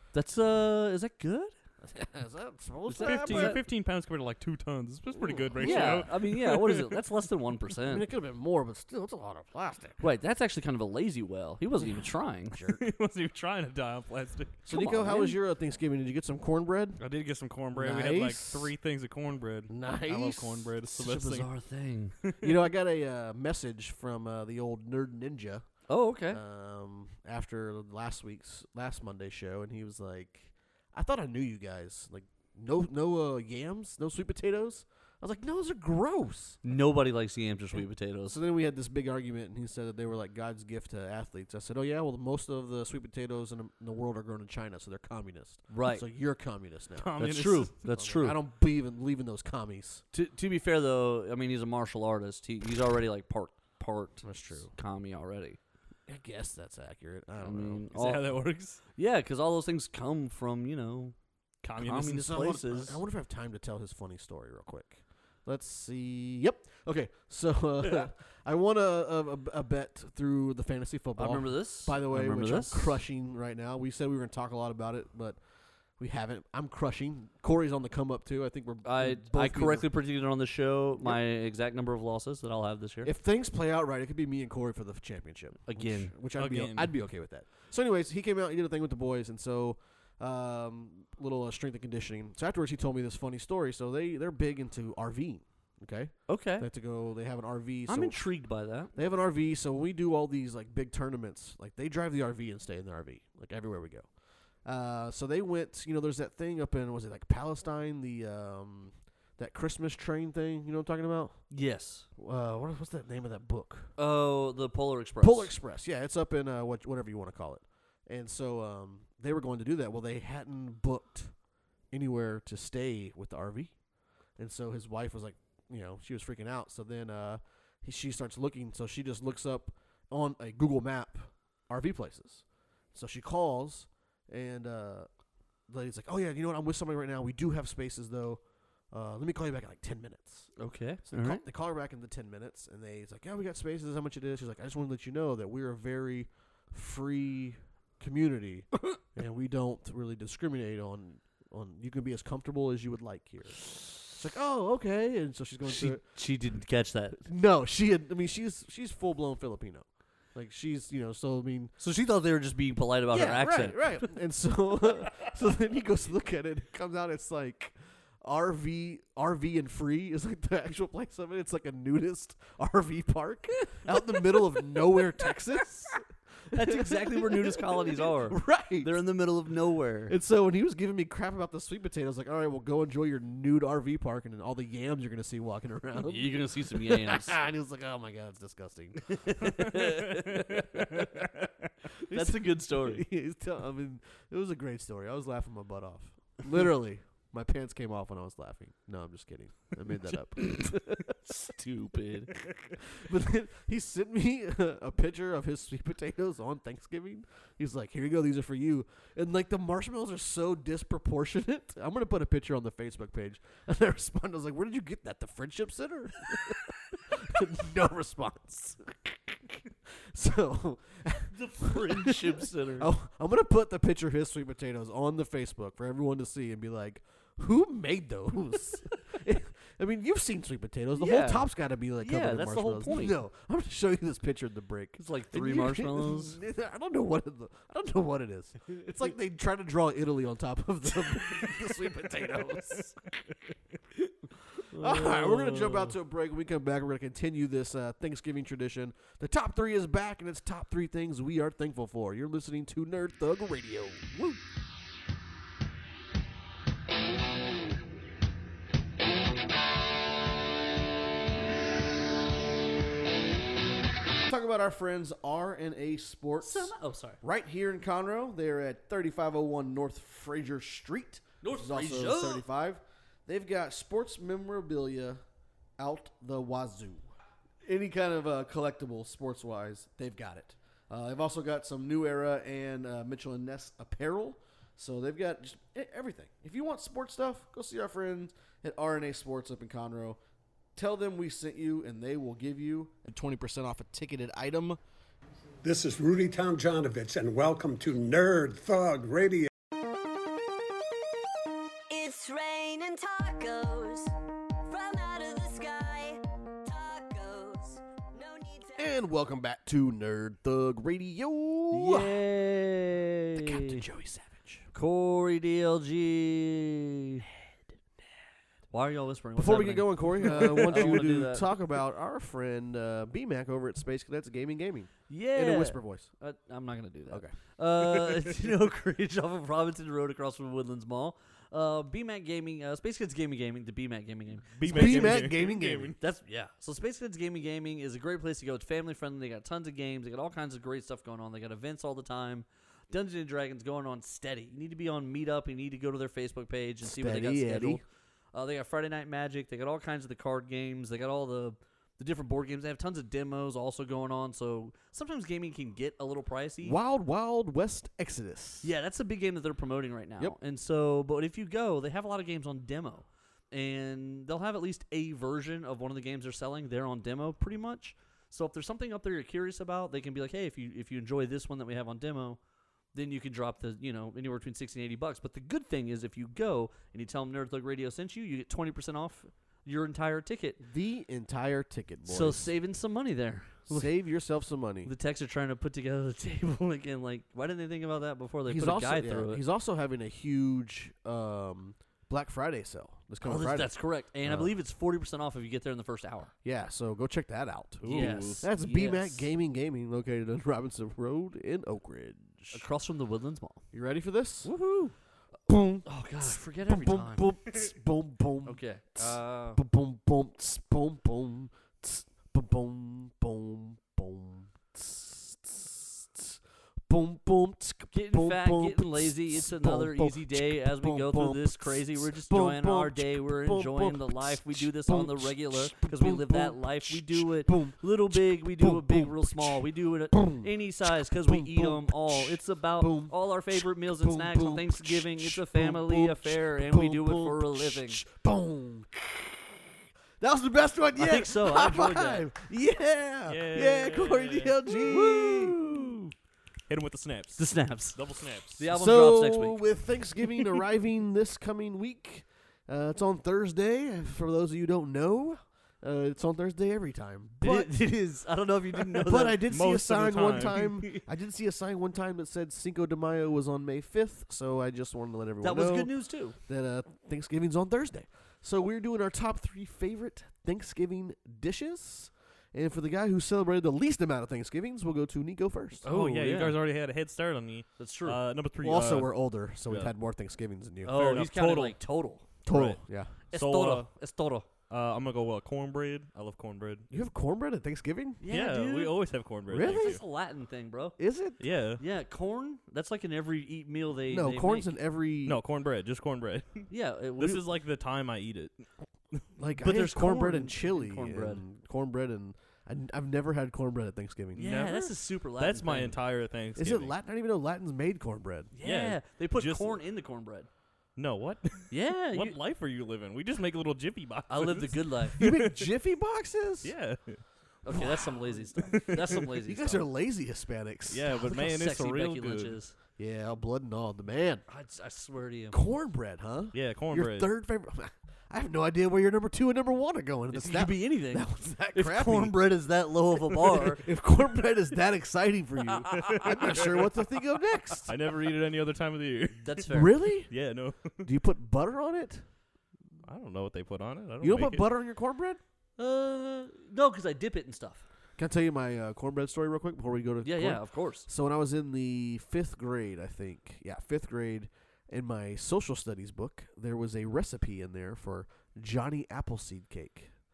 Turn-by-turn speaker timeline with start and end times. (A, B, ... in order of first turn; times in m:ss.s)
0:00.1-0:01.5 A
0:01.8-0:03.6 B
0:02.9-0:03.6 A
0:03.0-0:07.0 C
0:05.1-0:06.2 B
0:05.6-0:08.0 A
0:07.8-0:10.0 B
0:10.0-0:12.6 A
0:11.8-0:12.8 B
0:12.7-0:14.6 C
0:14.6-0:17.0 B
0:14.7-0:15.4 A
0:17.0-0:21.5 C
0:17.7-0:18.7 B
0:19.7-0:20.7 B
0:20.9-0:22.2 A
0:22.4-0:25.7 B
0:25.9-0:26.4 A
0:26.3-0:36.6 B
0:36.6-0:38.4 A
0:38.3-0:47.2 B
0:45.7-0:46.0 A
0:47.0-0:47.8 C
0:47.2-0:48.4 A
0:47.9-0:50.0 B
0:50.1-0:55.6 A
0:54.2-0:54.7 B
0:56.1-0:57.8 B
0:57.4-0:58.4 A
0:57.9-0:58.8 C
0:58.9-1:01.1 A
1:01.6-1:02.3 C
1:01.8-1:03.0 A
1:02.0-1:15.4 B
1:11.2-1:13.0 A
1:16.0-1:19.9 B
1:18.8-1:23.1 A
1:23.0-1:38.2 B
1:25.7-1:26.1 A
1:26.4-1:26.9 C
1:36.3-1:36.7 A
1:37.9-1:38.9 A
1:38.9-1:44.1 B
1:44.6-1:51.4 B
1:51.5-1:52.1 A
1:52.2-1:53.9 B
1:54.0-1:55.5 A
1:55.2-2:01.3 B
2:01.9-2:03.7 B
2:04.4-2:15.1 B
2:15.7-2:20.5 B
2:20.6-2:21.4 A
2:21.0-2:36.0 B
2:35.6-2:37.2 A
2:37.2-2:41.7 B
2:41.8-2:43.8 A
2:43.1-2:56.0 B
2:56.5-2:59.0 B
2:56.5-3:00.2 A
3:00.1-3:09.8 B
3:06.0-3:07.4 A
3:09.1-3:11.3 A
3:12.0-3:21.3 B
3:12.1-3:13.0 A
3:21.3-3:22.4 A
3:22.3-4:03.0 B
3:41.3-3:42.9 A
3:51.0-3:51.5 A
3:52.0-3:53.2 A
3:55.0-3:56.4 A
4:04.7-4:05.9 A
4:04.7-4:14.4 B
4:24.2-4:35.2 B
4:26.4-4:27.2 A
4:31.4-4:32.4 A
4:35.8-4:37.0 B
4:37.6-4:50.2 B
4:50.8-4:54.8 B
4:55.6-4:59.5 D
5:01.9-5:04.1 E
5:04.6-5:08.9 E
5:08.8-5:12.2 B
5:11.7-5:13.8 A
5:13.3-5:14.6 B
5:14.7-5:17.2 A
5:18.7-5:21.5 A
5:19.4-5:26.1 B
5:20.4-5:20.9 C
5:25.1-5:35.3 A
5:34.5-5:36.0 C
5:34.7-5:35.9 B
5:36.0-5:47.8 A
5:46.8-5:47.8 B
5:48.3-5:56.8 A
5:56.6-5:58.7 B
5:58.6-6:12.4 A
6:12.9-6:20.6 A
6:20.6-6:22.5 B
6:22.0-6:23.9 A
6:23.7-6:24.9 B
6:24.8-6:29.4 A
6:28.4-6:33.7 B
6:33.2-6:36.3 A
6:34.2-6:34.5 B
6:36.4-6:42.6 B
6:37.8-6:38.4 C
6:37.9-6:39.3 A
6:42.5-6:43.6 A
6:43.7-6:44.5 B
6:44.4-6:44.9 A
6:45.5-7:09.6 B
6:45.8-6:47.3 A
6:48.4-6:49.6 A
6:57.9-7:18.0 A
7:10.1-7:10.5 B
7:11.0-7:19.6 B
7:20.2-7:25.6 B
7:21.0-7:22.3 A
7:23.3-7:25.9 C
7:26.7-7:28.6 C
7:27.4-7:28.0 A
7:28.6-7:29.6 A
7:28.7-7:37.7 B
7:37.4-7:39.4 A
7:38.7-7:45.9 B
7:39.4-7:41.0 C
7:45.4-7:46.4 A
7:46.5-7:55.9 B
7:55.8-7:56.6 A
7:55.9-7:59.1 C
7:57.8-7:58.2 A
7:58.6-8:01.1 B
7:59.6-7:59.9 C
8:00.8-8:02.2 A
8:00.9-8:01.8 C
8:02.4-8:03.1 B
8:02.4-8:03.9 C
8:03.3-8:04.5 A
8:04.7-8:07.1 C
8:06.9-8:08.2 B
8:08.2-8:09.0 A
8:08.3-8:10.0 C
8:09.5-8:10.0 B
8:09.5-8:11.0 A
8:11.0-8:11.4 B
8:11.4-8:11.8 C
8:11.8-8:14.7 A
8:14.1-8:15.4 B
8:15.2-8:18.5 C
8:16.7-8:17.4 A
8:19.4-8:24.4 B
8:19.6-8:21.4 A
8:24.3-8:26.9 C
8:24.4-8:25.9 A
8:26.6-8:28.5 B
8:28.5-8:30.5 A
8:28.6-8:29.8 C
8:31.0-8:35.7 C
8:31.7-8:32.4 A
8:34.3-8:35.2 A
8:35.2-8:36.7 B
8:36.6-8:37.2 C
8:37.6-8:39.8 A
8:37.7-8:38.1 B
8:38.7-8:39.2 C
8:39.4-8:41.1 B
8:40.9-8:42.6 C
8:41.1-8:42.7 A
8:43.0-8:44.4 B
8:44.5-8:45.6 A
8:45.5-8:52.4 B
8:46.5-8:47.3 C
8:50.3-8:53.8 A
8:53.5-8:58.0 B
8:55.9-8:56.6 A
8:55.9-8:56.9 C
8:57.8-8:59.7 C
8:59.4-9:00.0 A
8:59.7-9:00.3 B
9:00.3-9:01.1 C
9:01.0-9:02.2 B
9:03.0-9:04.7 C
9:04.2-9:05.4 B
9:05.8-9:07.8 A
9:08.2-9:20.1 B
9:10.2-9:11.1 A